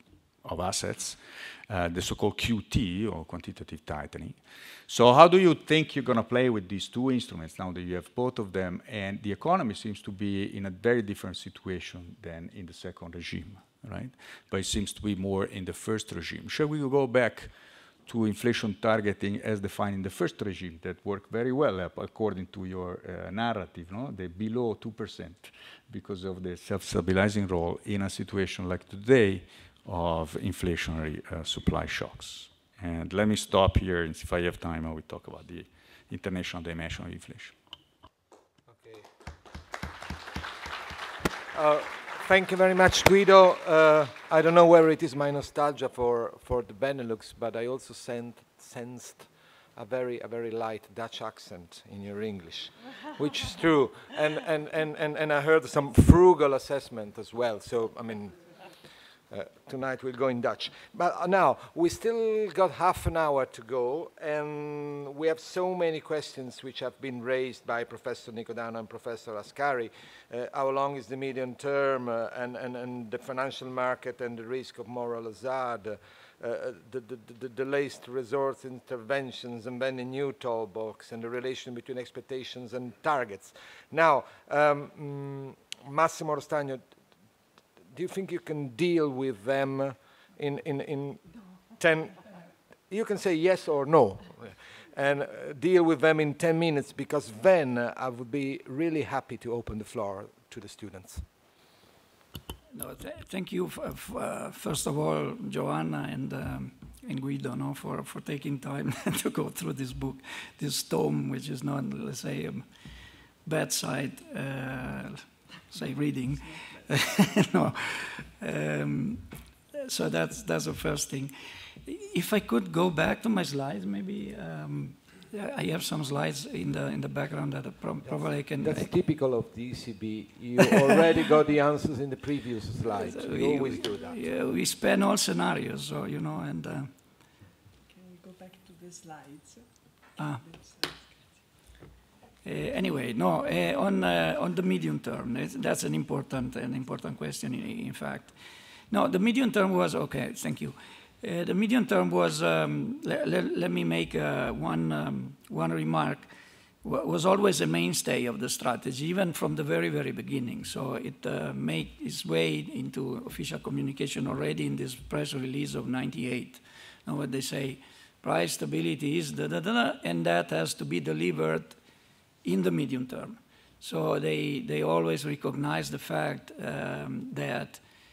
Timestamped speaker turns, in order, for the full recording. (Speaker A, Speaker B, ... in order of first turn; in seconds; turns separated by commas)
Speaker A: 0.4-17.5, Speaker A: 18.1-37.5, Speaker B: 38.7-39.1, Speaker B: 41.5-58.6, Speaker B: 59.3-86.9, Speaker B: 87.9-92.3, Speaker B: 92.9-101.2, Speaker C: 102.7-112.6, Speaker C: 113.4-119.2, Speaker C: 119.8-128.9, Speaker B: 128.0-134.2, Speaker C: 132.9-136.9, Speaker D: 137.9-141.5, Speaker C: 140.2-140.4, Speaker C: 142.4-148.3, Speaker C: 148.9-156.3, Speaker C: 156.8-171.8, Speaker C: 172.4-177.8